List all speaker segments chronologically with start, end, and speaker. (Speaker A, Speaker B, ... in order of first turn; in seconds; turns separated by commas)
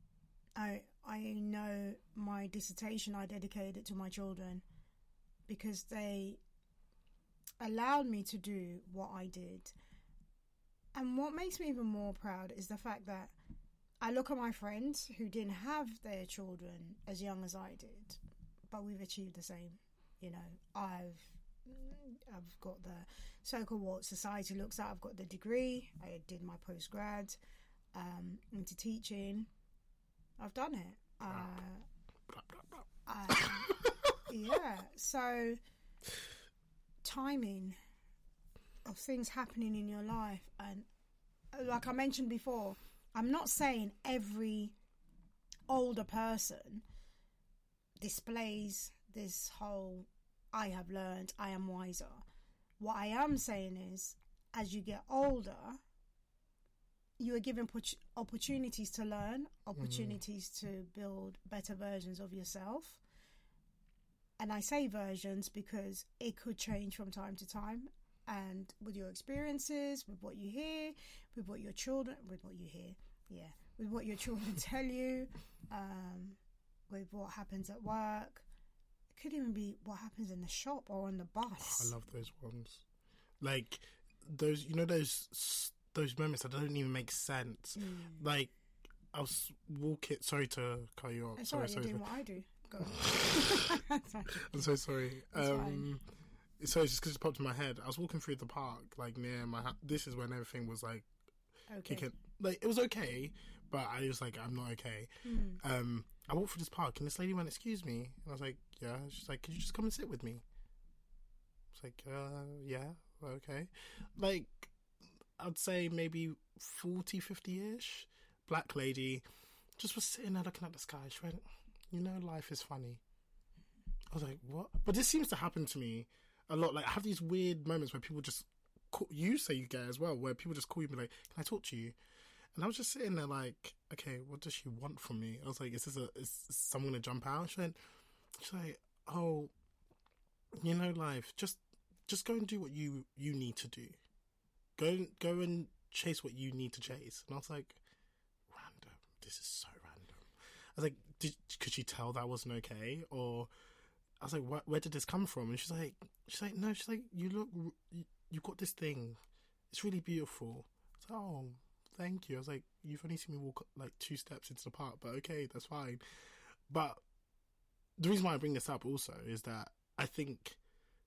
Speaker A: 0.6-4.6, Speaker A: 5.5-6.4, Speaker A: 7.6-9.7, Speaker A: 10.9-13.3, Speaker A: 14.0-18.2, Speaker A: 18.7-27.4, Speaker A: 27.9-29.5, Speaker A: 30.4-31.9, Speaker B: 32.3-34.2, Speaker A: 33.1-35.6, Speaker A: 37.0-37.8, Speaker A: 38.9-40.9, Speaker A: 41.5-44.8, Speaker A: 45.7-46.8, Speaker A: 48.0-52.2, Speaker A: 52.8-55.8, Speaker A: 57.2-63.0, Speaker B: 59.8-60.2, Speaker A: 64.4-78.5, Speaker A: 79.1-81.9, Speaker B: 81.6-82.8, Speaker B: 83.4-88.5, Speaker A: 87.8-88.2, Speaker B: 89.1-92.0, Speaker A: 91.4-94.8, Speaker B: 92.9-93.8, Speaker B: 94.4-96.0, Speaker A: 95.3-95.9, Speaker B: 96.6-101.1, Speaker A: 101.7-102.1, Speaker B: 101.8-110.4, Speaker A: 105.2-105.6, Speaker B: 111.7-114.7, Speaker B: 115.4-119.2, Speaker B: 119.8-123.0, Speaker B: 124.1-131.9, Speaker B: 132.6-137.8, Speaker B: 138.4-139.5, Speaker B: 140.6-144.0, Speaker B: 144.8-147.8, Speaker B: 148.5-153.5, Speaker B: 154.2-159.2, Speaker B: 159.7-166.0, Speaker B: 166.7-167.0, Speaker B: 168.0-170.6